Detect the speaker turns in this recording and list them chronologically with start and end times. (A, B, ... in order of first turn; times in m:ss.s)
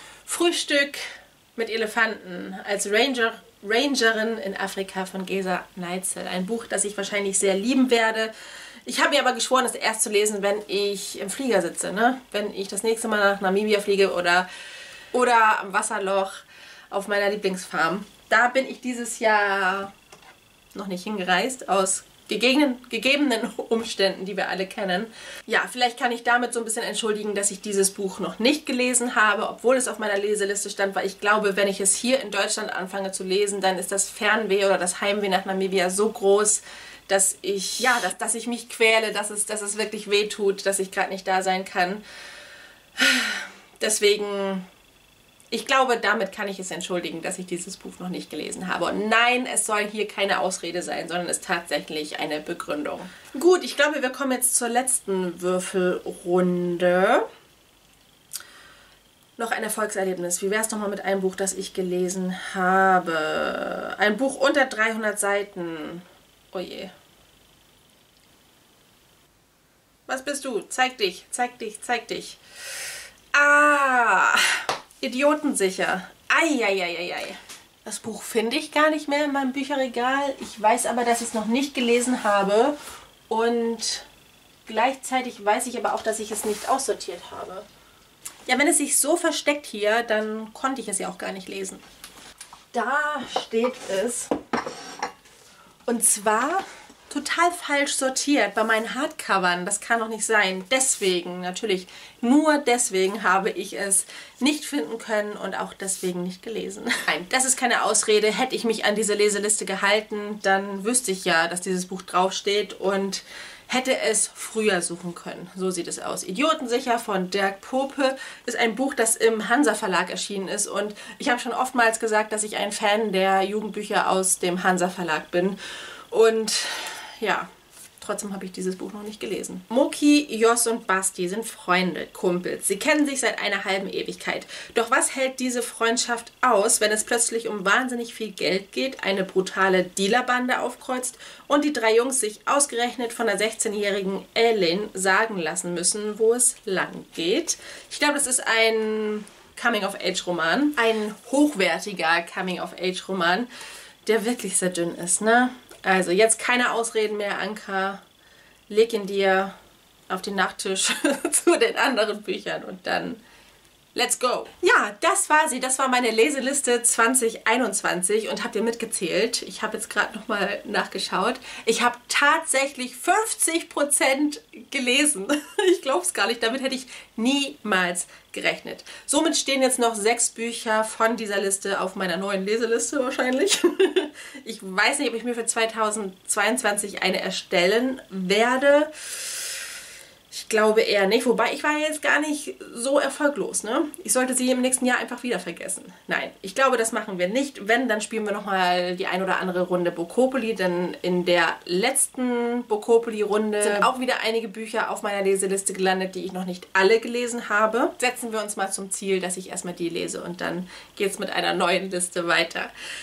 0:00.3-0:08.3 A
0:08.8-0:14.5 A
0:15.1-0:19.9 A
0:20.7-0:42.0 A
0:43.0-0:44.6 A
0:45.5-0:57.3 A
0:59.4-1:06.9 A
1:10.1-1:12.4 A
1:13.3-1:22.8 A
1:23.3-1:24.1 A
1:24.7-1:27.7 A
1:28.5-1:31.8 A
1:32.7-1:34.3 A
1:35.9-2:05.6 A
2:06.1-2:07.5 A
2:08.0-2:33.5 A
2:34.0-2:38.0 A
2:38.7-2:39.6 A
2:40.1-2:43.2 A
2:44.0-3:09.6 A
3:10.3-3:32.7 A